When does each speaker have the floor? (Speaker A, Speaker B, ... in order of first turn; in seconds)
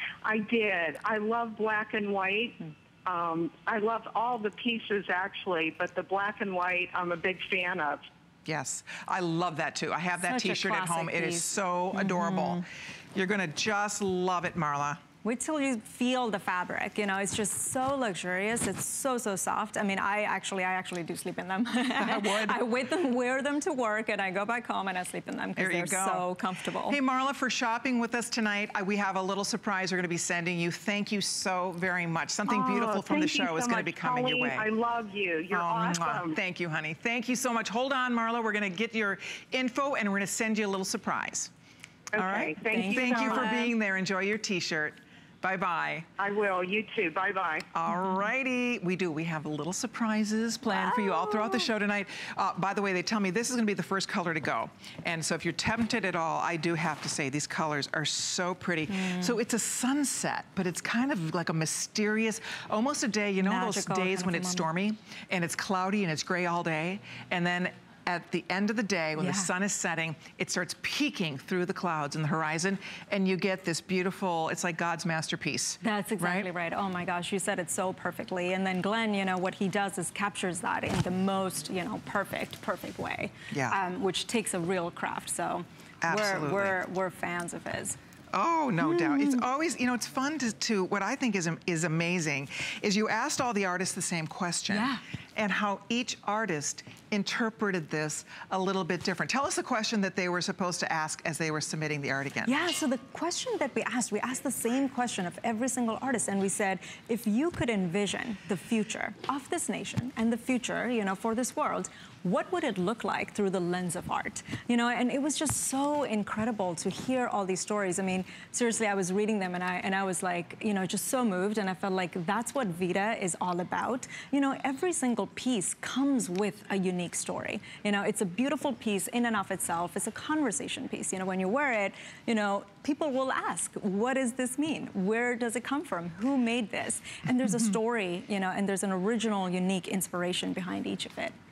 Speaker A: 0.2-8.0, 32.5-36.4, 42.1-43.7, 46.2-47.7
Speaker B: 8.4-15.0, 21.9-22.6, 25.6-26.3, 26.9-34.7, 35.5-41.5, 42.1-46.1, 47.7-76.5, 83.5-83.8, 86.0-86.8, 88.3-102.5
Speaker C: 10.2-12.6, 15.2-27.0, 42.7-43.7, 50.7-51.7, 58.9-59.4, 63.4-64.7, 69.2-69.5, 75.8-88.0, 88.8-89.4, 94.7-95.0, 102.5-141.3